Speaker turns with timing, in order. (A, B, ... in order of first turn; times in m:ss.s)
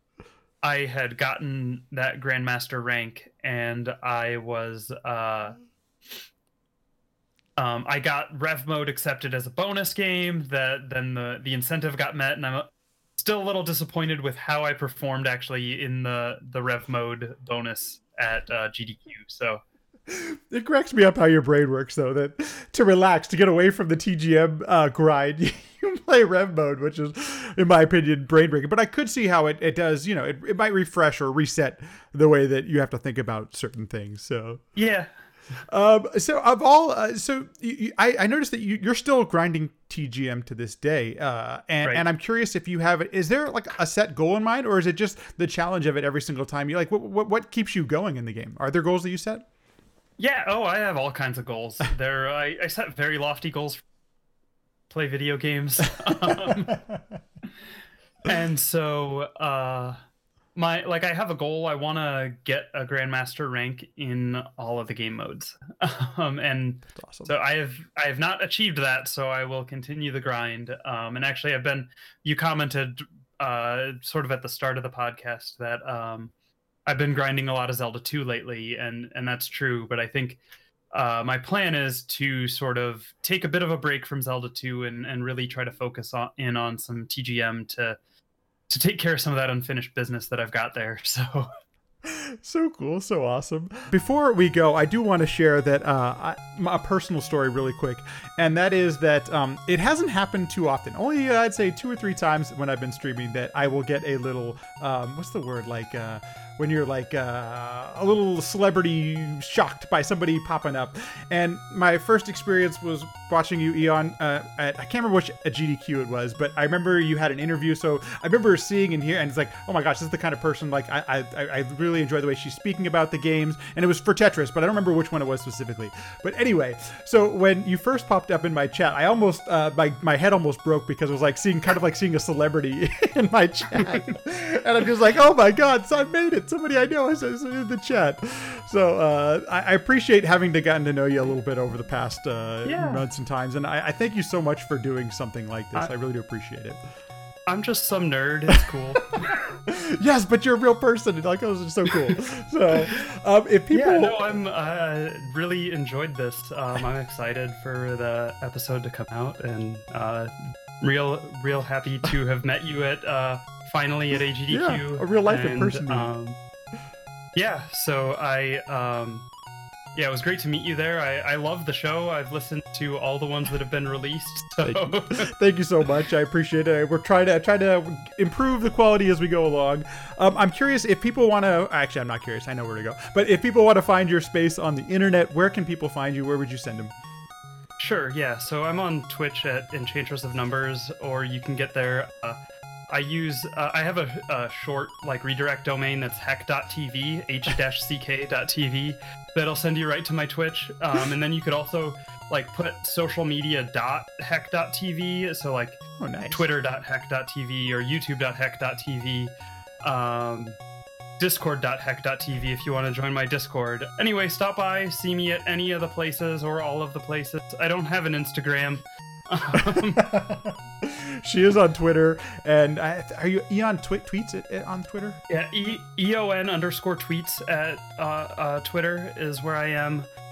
0:00.6-0:05.6 A
0:07.6-0:19.6 A
0:20.1-0:34.6 B
0:34.8-0:35.1 A
0:35.7-0:49.4 B
0:50.2-0:53.8 A
0:54.9-0:56.8 A
0:56.1-0:57.2 B
0:58.2-1:00.0 A
1:00.6-1:16.3 A
1:06.9-1:07.3 B
1:16.9-1:20.4 A
1:20.9-1:28.0 A
1:28.7-1:31.5 A
1:32.0-2:26.8 B
2:13.8-2:14.1 A
2:22.6-2:23.0 A
2:27.5-2:29.4 A
2:29.7-2:34.3 B
2:33.7-2:46.4 A
2:44.5-2:46.1 B
2:47.4-2:49.3 A
2:50.0-2:55.3 A
2:54.6-3:06.9 B
3:07.8-3:12.4 A
3:12.9-3:30.6 A
3:26.0-3:26.4 B
3:31.2-3:40.0 A
3:39.6-3:45.2 B
3:45.3-3:50.1 A